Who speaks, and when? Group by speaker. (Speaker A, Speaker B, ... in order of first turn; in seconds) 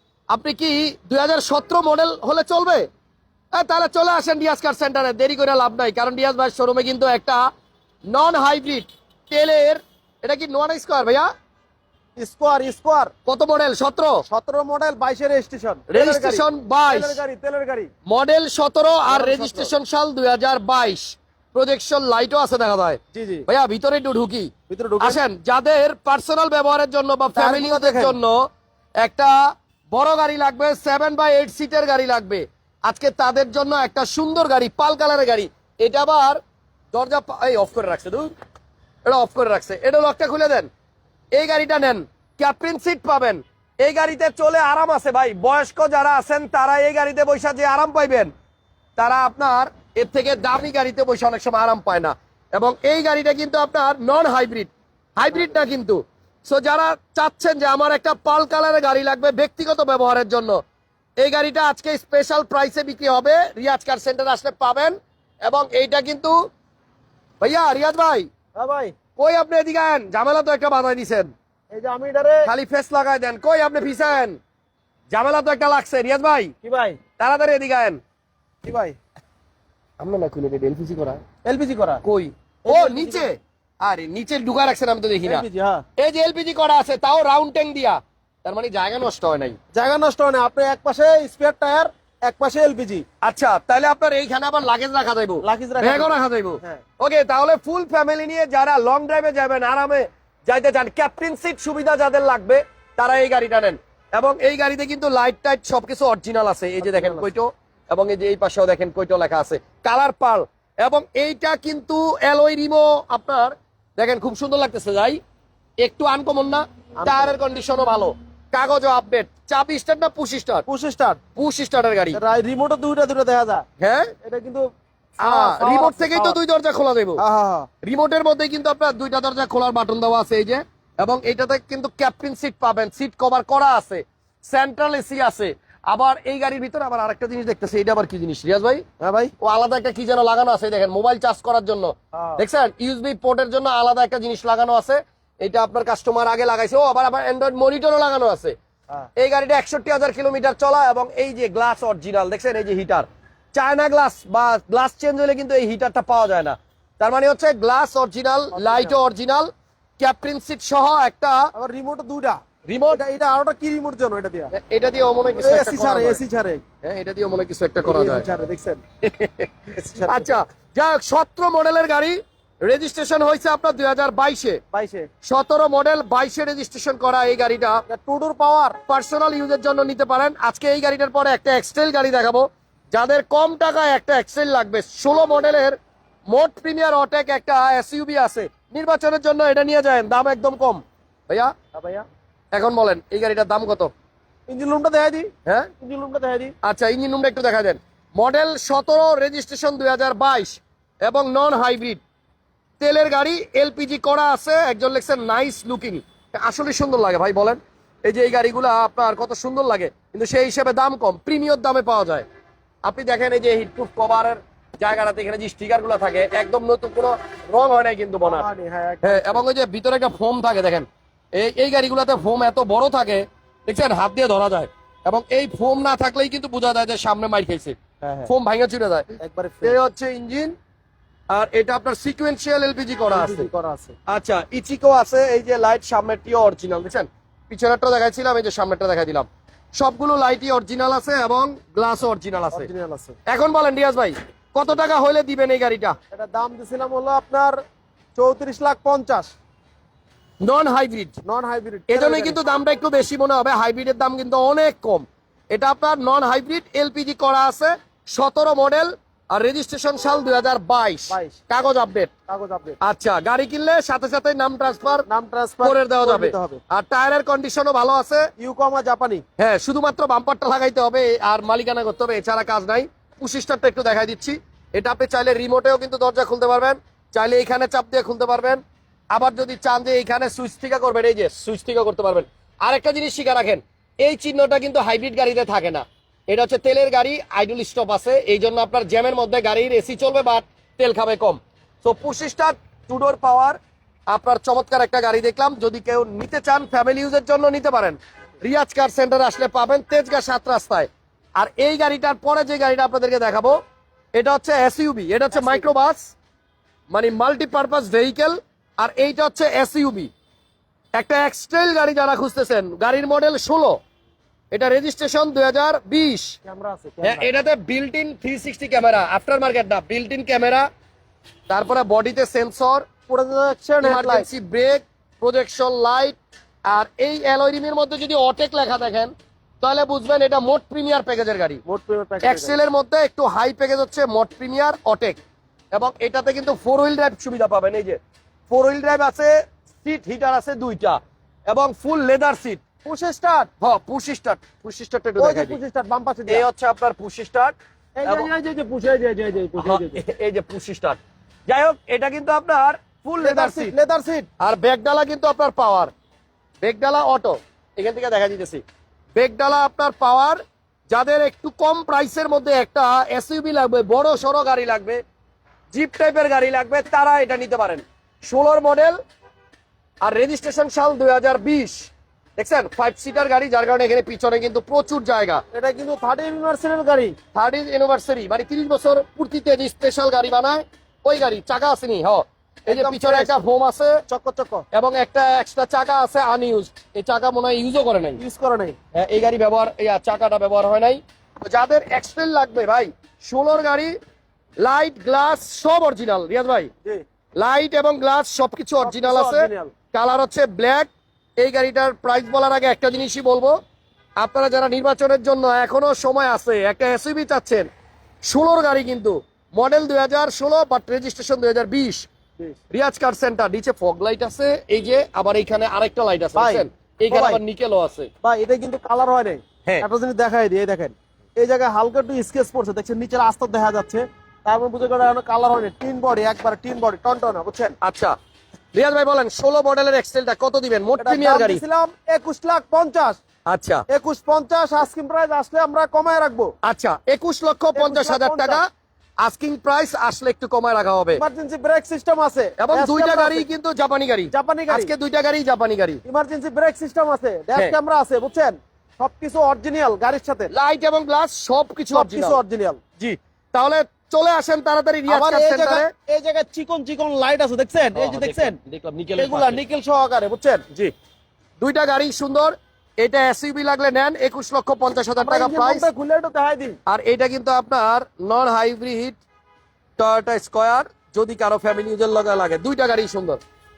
Speaker A: 0.3-2.9, 3.5-7.4, 8.1-11.3, 13.2-14.2, 15.9-17.2, 18.1-28.4, 29.0-29.4, 29.9-36.4, 36.9-38.3, 39.0-40.7, 41.4-48.3, 49.0-60.6, 61.2-66.3, 67.4-68.3, 69.2-71.3, 72.5-74.4, 75.1-76.5, 77.2-78.0, 80.0-81.2, 82.0-85.4, 86.0-89.5, 93.2-115.2, 115.8-120.6, 121.3-122.2, 123.8-124.1, 125.2-127.2, 127.8-138.8, 139.4-148.6, 149.2-161.5, 162.7-163.0, 164.5-166.2, 166.8-168.2, 169.0-174.6, 175.2-177.8, 178.9-185.8, 186.3-191.5, 192.5-193.9, 196.6-202.0, 202.8-212.2, 212.8-218.4, 219.0-229.1, 229.6-230.5, 231.3-233.5, 234.1-242.7, 243.3-245.9, 250.4-251.2, 251.9-262.1, 262.8-265.1, 265.6-268.3, 269.4-278.6, 279.1-293.6, 294.1-303.6, 304.1-306.1, 306.9-310.1, 310.9-313.8, 314.5-316.4, 317.0-320.7, 321.5-322.8, 323.8-331.6, 332.2-335.2, 335.7-342.6, 343.6-345.6, 346.3-348.3, 349.6-353.7, 354.4-355.9, 356.6-358.6, 359.1-365.0, 365.7-369.0, 370.0-375.4, 377.3-384.0, 384.7-388.2, 388.9-393.9, 394.6-396.7, 397.4-403.5, 404.2-407.7, 408.2-412.1, 412.7-418.1, 427.8-428.1, 428.7-431.6, 433.5-433.8, 436.6-438.6, 439.2-441.2, 442.6-446.0, 450.5-452.4, 453.0-455.9, 457.9-459.6, 461.6-465.8, 466.9-469.2, 470.0-473.4
Speaker B: 12.2-13.1, 14.3-17.9, 19.1-19.7, 23.1-23.4, 24.7-25.2, 27.3-28.1, 68.5-68.9, 71.7-72.5, 76.6-77.0, 78.6-79.0, 81.4-82.0, 82.6-83.2, 85.2-85.8, 89.7-93.0, 95.4-96.8, 106.8-107.3, 117.0-117.4, 120.7-121.2, 122.1-123.6, 124.2-124.6, 125.2-126.4, 127.2-127.7, 139.0-139.3, 142.1-142.4, 158.5-159.0, 161.5-162.4, 162.9-164.5, 165.4-166.6, 167.8-168.8, 169.7-170.3, 174.7-175.1, 177.9-178.8, 191.7-192.1, 194.5-196.5, 218.2-219.4, 228.0-228.3, 229.2-229.8, 233.1-233.9, 242.5-243.2, 246.1-247.6, 248.2-249.3, 251.2-252.4, 261.1-261.4, 262.3-262.8, 265.1-266.6, 268.4-269.2, 305.3-305.7, 316.4-317.3, 323.1-324.3, 331.6-332.6, 342.8-343.5, 345.2-346.4, 348.0-350.0, 353.2-354.3, 375.5-377.1, 382.7-383.4, 384.1-384.6, 388.2-388.8, 398.8-399.7, 416.4-417.4, 418.2-427.8, 431.0-433.2, 433.9-436.5, 437.7-438.6, 441.1-443.5, 444.3-444.9, 446.0-450.5, 451.9-452.8, 455.1-458.6, 459.1-460.6, 465.2-466.8